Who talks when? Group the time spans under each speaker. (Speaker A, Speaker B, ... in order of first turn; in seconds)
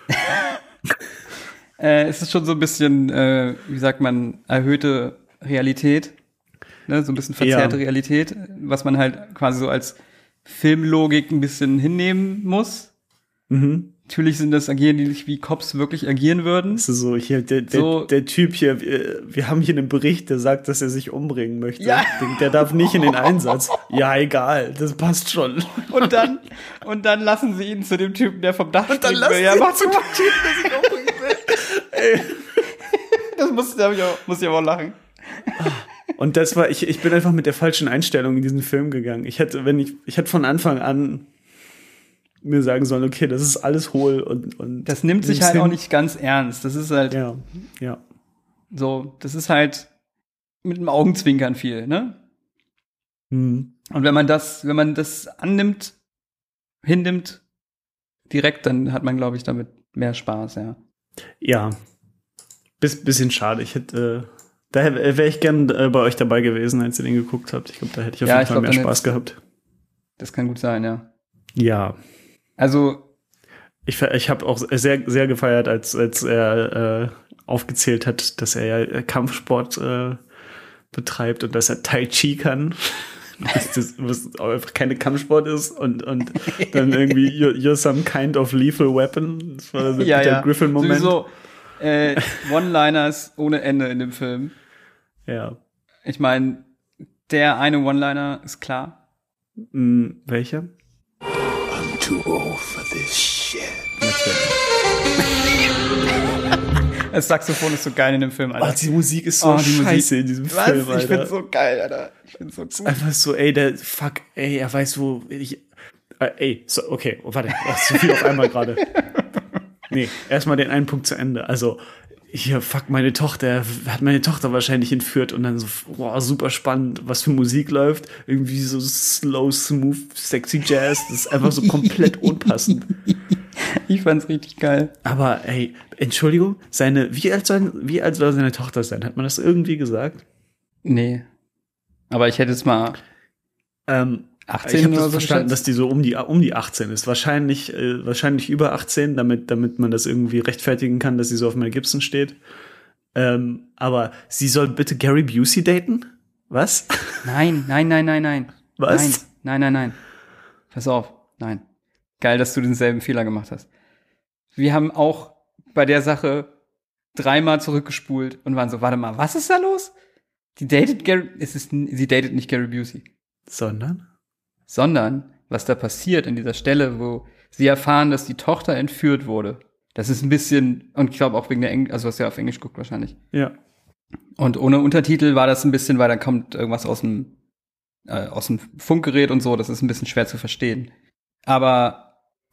Speaker A: 1.8-6.2, 6.9-12.9, 14.1-16.9, 17.7-18.1, 21.8-22.4, 25.9-31.5, 32.8-35.7, 44.9-47.2, 48.7-49.9, 50.6-52.2, 53.9-56.0, 56.8-57.4, 58.3-60.8, 68.2-69.2, 70.2-71.1, 72.6-73.1, 86.5-87.1, 90.0-94.5, 96.1-96.7, 97.3-99.0, 107.1-108.8, 109.4-113.0, 133.6-134.9, 140.8-141.3, 142.1-143.0, 144.5-145.6, 157.2-160.0, 160.7-161.6, 162.2-163.7, 164.6-166.5, 167.1-169.9, 170.6-173.1, 174.7-183.2, 184.4-187.3, 188.1-190.9, 191.5-192.1
Speaker B: 7.4-7.8, 13.5-13.9, 16.7-26.3, 28.9-32.6, 35.6-41.3, 42.4-45.8, 47.1-48.0, 53.3-53.7, 61.4-61.8, 62.8-69.4, 71.6-72.0, 73.9-80.2, 80.9-91.2, 95.3-95.6, 99.7-100.7, 104.0-104.4, 108.6-111.3, 112.8-115.7, 116.2-118.9, 119.9-132.9, 135.0-140.2, 143.9-152.4, 153.2-157.3, 158.8-159.2, 173.5-174.0
Speaker C: 101.7-104.0